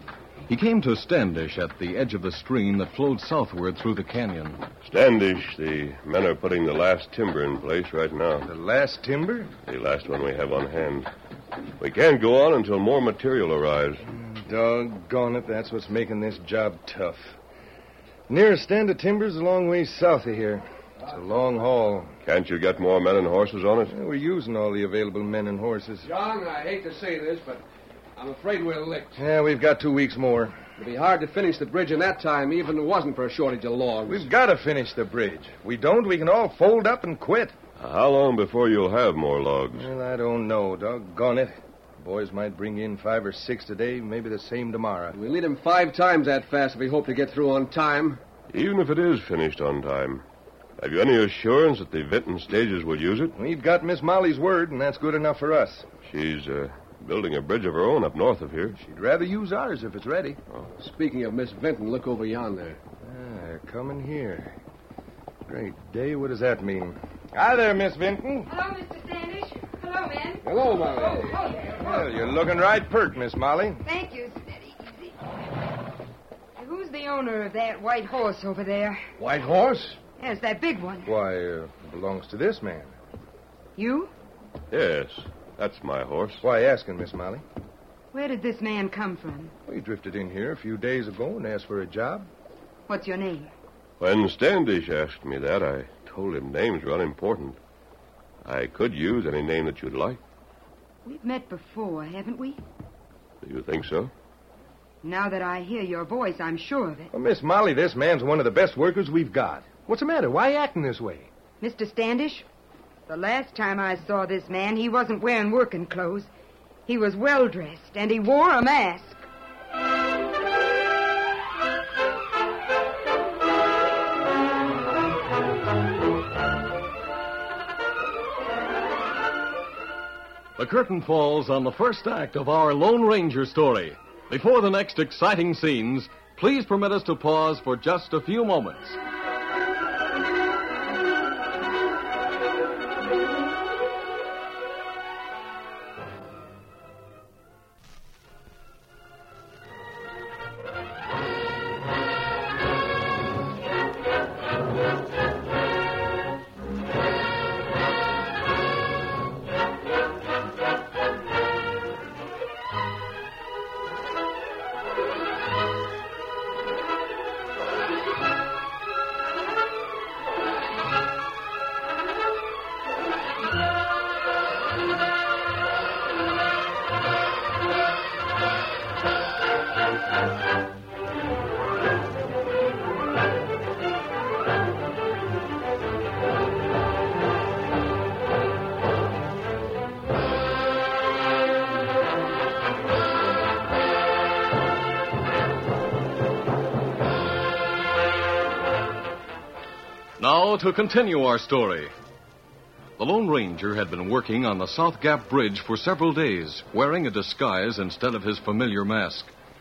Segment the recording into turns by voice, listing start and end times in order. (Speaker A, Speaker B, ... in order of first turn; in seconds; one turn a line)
Speaker A: 0.5-4.6
Speaker B: 4.8-8.5
Speaker C: 8.5-9.5
Speaker B: 9.7-11.1
Speaker B: 11.8-14.0
Speaker C: 14.1-17.3
Speaker C: 18.3-22.1
Speaker B: 22.2-23.9
Speaker C: 23.9-26.1
Speaker D: 26.0-27.6
Speaker D: 28.2-29.2
Speaker C: 29.2-30.6
Speaker D: 30.8-34.3
Speaker C: 34.1-37.5
Speaker B: 37.8-39.9
Speaker C: 39.8-45.1
Speaker D: 45.1-48.2
Speaker B: 48.5-50.2
Speaker B: 50.8-53.4
Speaker C: 53.4-55.9
Speaker B: 56.0-58.8
Speaker C: 58.8-60.4
Speaker D: 60.8-62.8
Speaker C: 63.0-64.5
Speaker C: 65.5-68.5
Speaker E: 68.5-70.5
Speaker D: 70.4-71.3
Speaker E: 71.2-71.8
Speaker C: 71.8-73.8
Speaker E: 73.8-75.2
Speaker E: 76.6-79.0
Speaker D: 79.2-80.0
Speaker E: 80.2-81.1
Speaker C: 81.0-82.9
Speaker E: 83.8-84.1
Speaker B: 84.7-86.4
Speaker C: 86.4-87.4
Speaker E: 88.1-89.5
Speaker C: 89.7-92.3
Speaker E: 92.9-93.5
Speaker B: 94.0-97.6
Speaker B: 98.5-100.2
Speaker E: 101.0-102.6
Speaker B: 103.4-104.1
Speaker E: 105.0-107.1
Speaker C: 107.1-111.3
Speaker E: 111.6-112.5
Speaker E: 113.1-116.3
Speaker E: 116.9-119.3
Speaker A: 130.6-139.0
Speaker A: 200.2-201.9
Speaker A: 203.0-209.3